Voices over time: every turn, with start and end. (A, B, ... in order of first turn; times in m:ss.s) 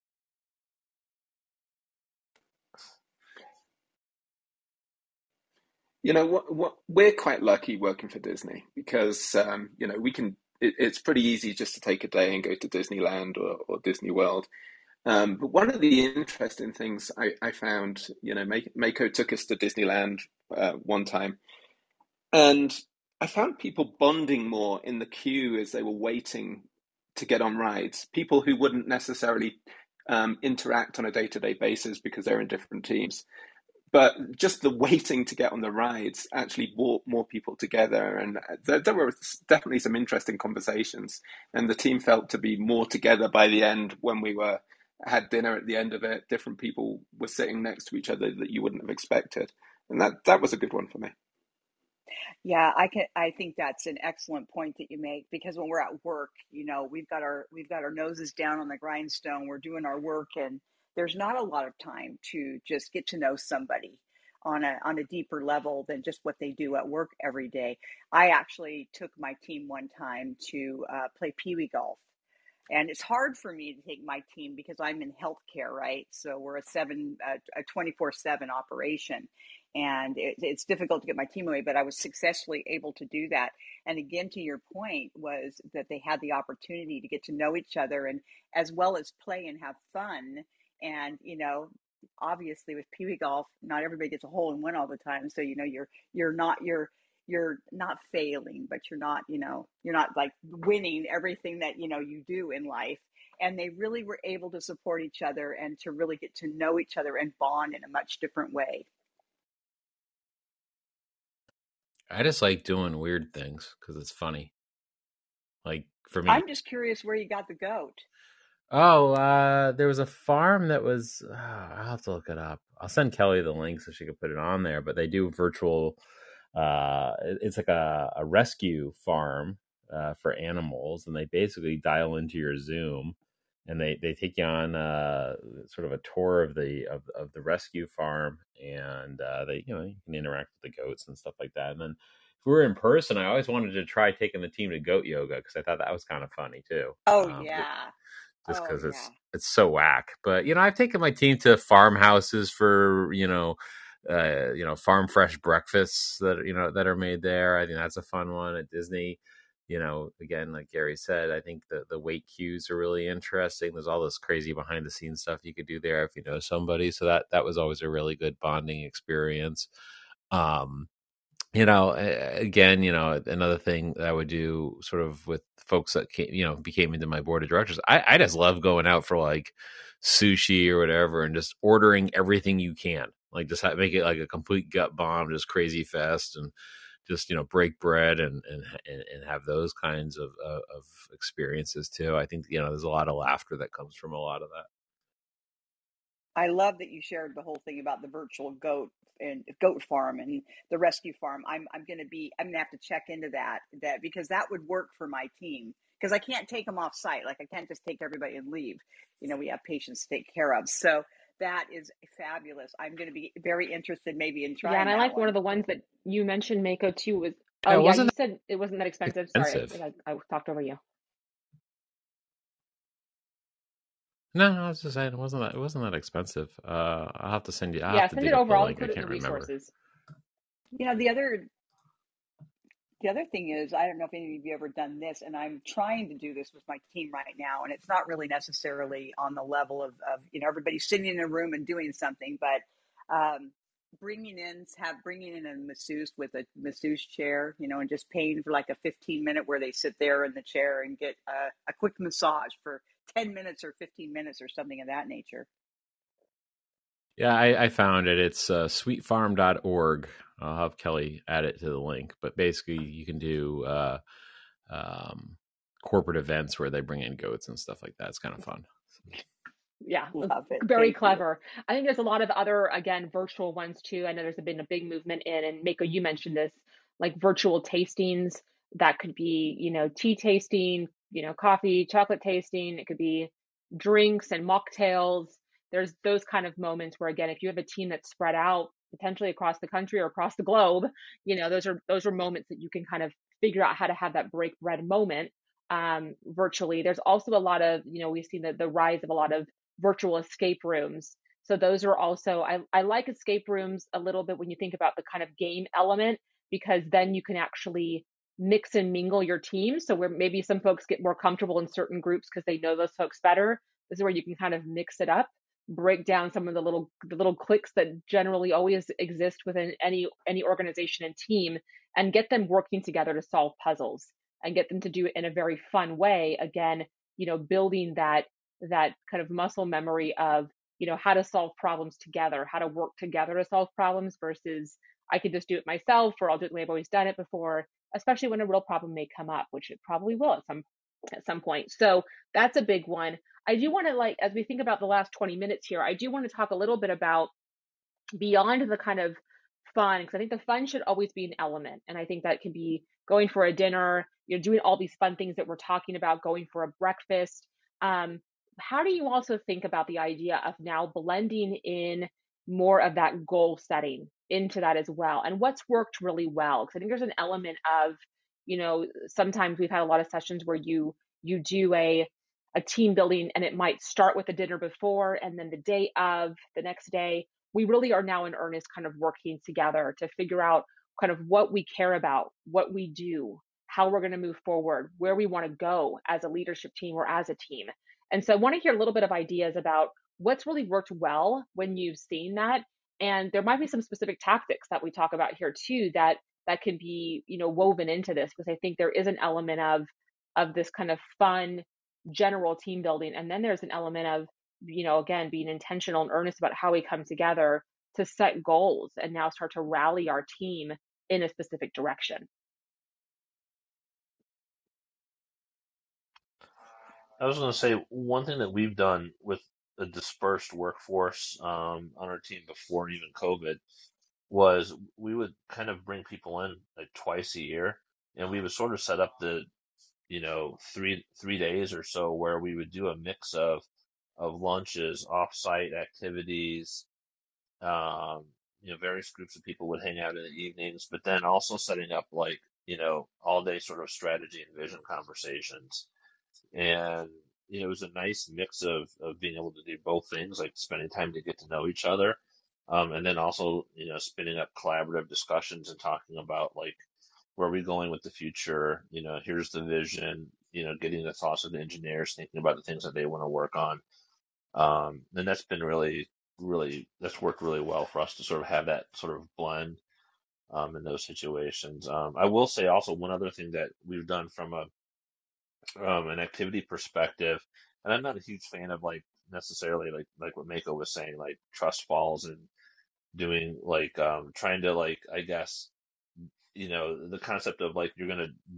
0:06.0-0:14.5 A
0:15.0-0:21.4 A
0:22.3-0:33.2 A
0:33.9-0:51.1 A
0:52.4-1:12.0 B
1:12.7-1:48.9 B
1:52.1-1:54.5 C
1:55.6-1:56.4 C
1:56.3-1:58.0 B
1:58.7-2:06.0 C
2:06.5-2:27.7 C
2:27.1-2:27.9 B
2:28.5-2:49.7 C
2:28.5-2:29.1 B
2:50.3-2:50.9 C
2:51.6-3:06.5 C
3:07.1-3:14.7 C
3:16.4-3:35.3 B
3:34.6-3:40.8 D
3:37.7-3:38.1 C
3:39.1-3:39.8 C
3:44.3-3:49.5 C
3:47.9-3:49.7 D
3:50.8-3:51.5 B
3:53.0-4:15.5 B
4:17.2-4:24.0 C
4:24.7-4:28.7 C
4:29.8-5:40.6 D
4:30.2-4:31.2 B
5:41.2-5:47.3 D
5:48.2-6:52.3 D
6:57.2-7:03.6 E
7:04.3-7:09.5 E
7:10.1-7:13.6 E
7:14.2-7:16.8 E
7:17.6-7:25.9 E
7:26.5-7:36.8 E
7:37.4-7:43.8 E
7:44.6-7:49.8 E
7:50.5-7:54.7 E
7:55.8-8:02.5 E
8:03.1-8:05.7 E
8:06.6-8:08.3 E